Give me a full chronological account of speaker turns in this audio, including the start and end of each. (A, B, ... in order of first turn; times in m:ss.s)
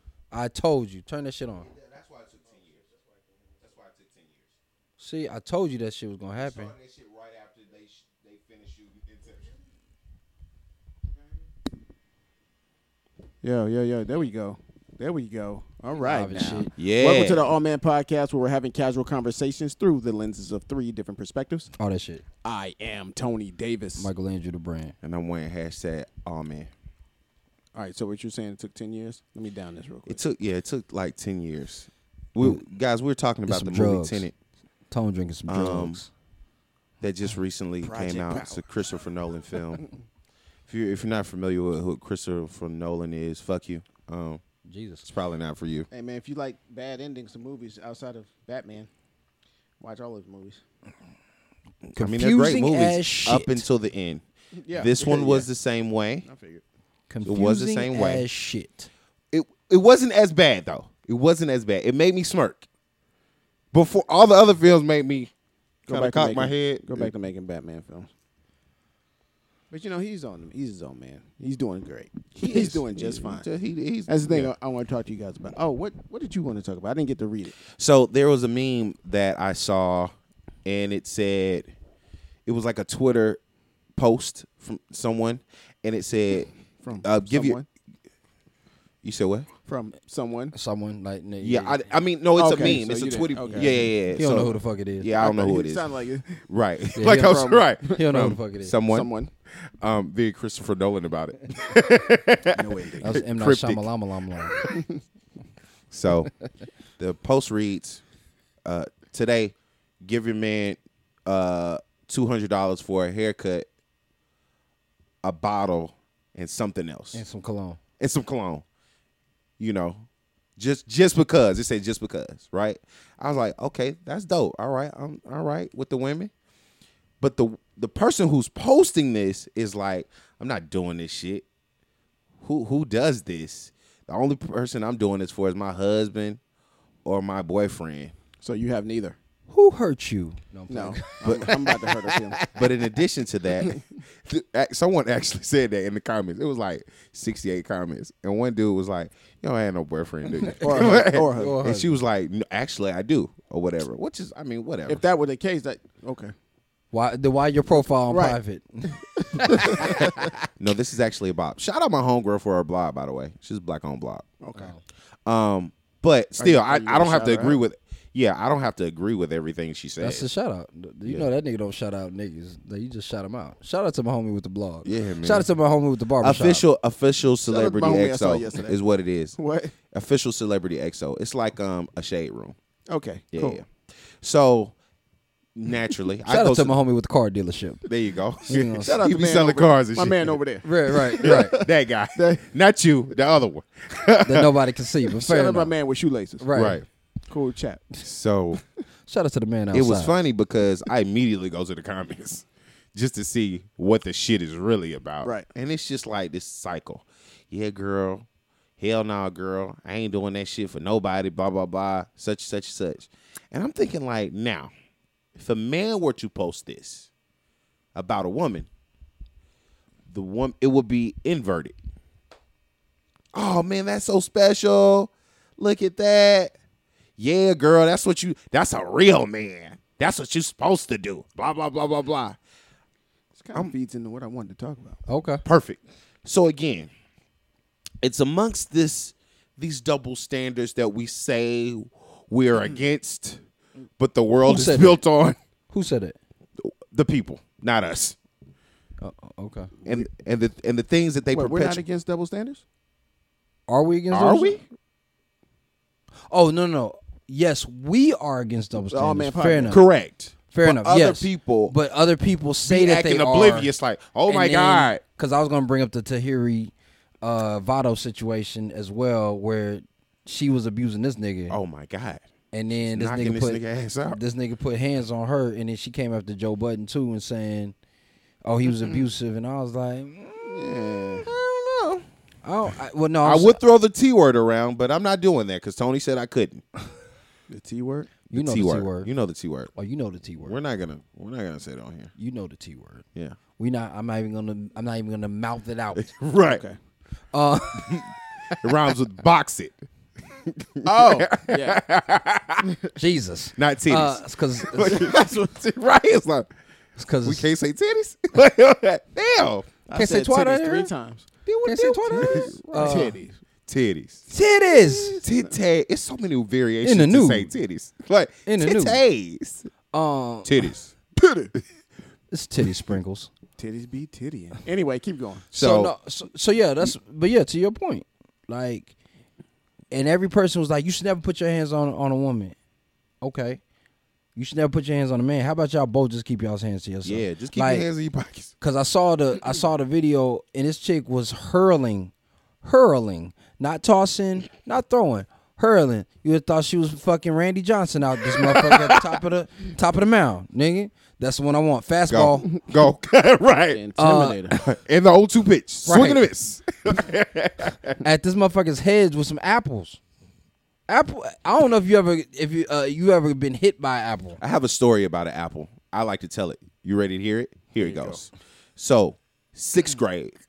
0:00.3-0:01.7 A
0:01.6-0:02.9 B
0:03.5-0:04.4 B
0:05.0-0:06.7 A
0:06.4-0:09.5 B
0:13.4-0:21.7 C
0:16.0-0:16.7 A
0:16.8-0:17.4 B
0:21.8-0:22.2 A
0:22.4-0:24.1 C
0:24.0-0:24.9 A
0:25.0-0:26.7 B
0:27.7-0:30.2 C
0:30.0-0:34.3 B
0:33.5-0:34.3 A
0:34.9-0:36.1 A
0:35.5-0:36.0 B
0:37.0-0:39.9 B
0:37.8-0:38.6 C
0:40.7-0:44.4 B
0:44.6-0:45.0 A
0:45.0-0:45.9 B
0:45.9-0:48.9 C
0:49.8-0:50.6 C
0:51.9-0:56.3 B
0:52.0-0:53.6 A
0:54.6-0:55.5 C
0:56.2-0:56.6 C
0:57.1-0:58.9 A
0:57.2-0:58.2 B
0:59.3-1:02.6 B
1:03.7-1:05.3 B
1:05.9-1:07.1 B
1:05.9-1:08.1 C
1:09.7-1:13.4 C
1:12.4-1:14.5 B
1:14.1-1:17.6 C
1:17.7-1:20.1 B
1:20.6-1:21.6 B
1:22.4-1:23.4 B
1:24.0-1:26.5 B
1:26.8-1:27.6 C
1:27.0-1:27.6 B
1:29.0-1:29.5 B
1:29.7-1:30.5 C
1:30.5-1:31.9 A
1:31.4-1:35.9 B
1:32.4-1:33.9 C
1:33.5-1:35.1 A
1:35.2-1:38.0 C
1:36.4-1:39.1 B
1:37.0-1:38.8 A
1:38.9-1:39.3 C
1:39.6-1:43.9 B
1:42.6-1:43.1 C
1:43.0-1:44.6 A
1:44.4-1:44.8 B
1:44.6-1:45.0 C
1:45.9-1:46.3 B
1:47.0-1:48.0 B
1:48.6-1:53.7 B
1:55.2-1:57.2 B
1:57.1-1:57.8 A
1:58.0-1:58.6 B
1:59.6-2:00.0 B
2:00.6-2:06.3 B
2:07.2-2:11.4 B
2:12.4-2:16.4 B
2:17.0-2:18.1 B
2:18.4-2:19.2 C
2:19.5-2:22.6 A
2:20.7-2:22.4 C
2:21.2-2:21.5 B
2:22.5-2:35.0 B
2:30.6-2:31.8 C
2:30.6-2:31.8 A
2:34.9-2:36.3 C
2:36.9-2:40.3 A
2:38.1-2:38.4 C
2:39.2-2:40.5 C
2:39.7-2:44.3 B
2:44.4-2:44.7 C
2:44.6-2:44.8 A
2:45.2-2:50.2 B
2:46.4-2:47.6 C
2:50.0-2:56.6 A
2:54.8-2:55.5 B
2:56.2-2:59.4 B
2:57.4-2:58.8 C
2:59.4-2:59.8 C
2:59.9-3:02.6 B
3:02.9-3:03.6 C
3:03.3-3:04.7 B
3:05.5-3:06.8 B
3:06.3-3:07.8 A
3:07.8-3:10.4 B
3:08.4-3:09.0 A
3:08.8-3:12.4 C
3:10.6-3:11.6 A
3:11.2-3:14.5 B
3:14.2-3:15.7 A
3:15.1-3:16.6 C
3:16.4-3:16.8 A
3:16.5-3:16.8 B
3:17.3-3:18.0 C
3:18.0-3:18.6 B
3:19.1-3:20.1 A
3:19.7-3:28.3 B
3:28.8-3:34.7 B
3:35.4-3:37.1 B
3:37.9-3:38.7 B
3:40.1-3:41.8 B
3:43.3-3:46.5 B
3:47.2-3:52.4 B
3:53.4-3:55.0 C
3:55.1-3:55.4 A
3:55.4-3:56.9 B
3:58.0-4:03.4 B
4:04.0-4:05.4 B
4:04.4-4:05.0 A
4:05.7-4:06.2 A
4:06.6-4:08.2 B
4:09.0-4:09.7 A
4:09.8-4:11.8 B
4:11.3-4:12.6 C
4:13.7-4:14.6 A
4:14.1-4:14.6 B
4:16.3-4:19.8 A
4:18.9-4:19.8 C
4:19.7-4:21.7 B
4:20.5-4:23.7 A
4:22.6-4:25.0 B
4:24.2-4:31.6 A
4:31.5-4:32.2 B
4:32.5-4:37.7 A
4:32.9-4:34.2 B
4:38.4-4:40.5 A
4:40.4-4:41.3 C
4:40.5-4:42.0 B
4:42.4-4:43.6 A
4:43.2-4:46.6 B
4:47.5-4:48.1 C
4:48.3-4:49.1 A
4:48.3-4:49.7 B
4:49.7-4:50.6 A
4:50.4-4:52.1 B
4:52.2-4:53.0 A
4:53.6-4:56.1 A
4:56.0-4:56.6 B
4:56.5-4:56.8 C
4:57.3-4:58.7 A
4:57.8-4:59.8 B
5:00.3-5:02.8 B
5:00.8-5:01.8 C
5:03.0-5:05.1 A
5:03.6-5:06.5 B
5:07.0-5:07.5 A
5:07.2-5:09.7 B
5:09.9-5:11.4 C
5:09.9-5:10.9 A
5:11.4-5:13.1 B
5:11.6-5:13.2 A
5:12.1-5:13.4 C
5:13.6-5:14.3 B
5:14.3-5:15.2 A
5:14.8-5:19.7 B
5:16.8-5:17.5 A
5:18.4-5:19.0 A
5:19.9-5:20.6 A
5:20.4-5:20.9 B
5:21.2-5:21.5 C
5:22.3-5:23.3 A
5:23.6-5:25.4 C
5:25.5-5:25.9 B
5:25.5-5:28.9 A
5:29.9-5:32.5 A
5:33.2-5:33.6 A
5:34.4-5:37.8 A
5:37.0-5:38.5 B
5:38.6-5:42.1 A
5:42.6-5:52.5 A
5:48.3-5:49.0 B
5:52.1-5:53.8 B
5:53.7-5:54.6 C
5:54.0-5:54.4 A
5:54.5-5:58.0 B
5:55.8-5:56.2 A
5:58.0-6:00.0 A
6:00.9-6:04.4 A
6:04.4-6:10.3 B
6:07.8-6:08.2 C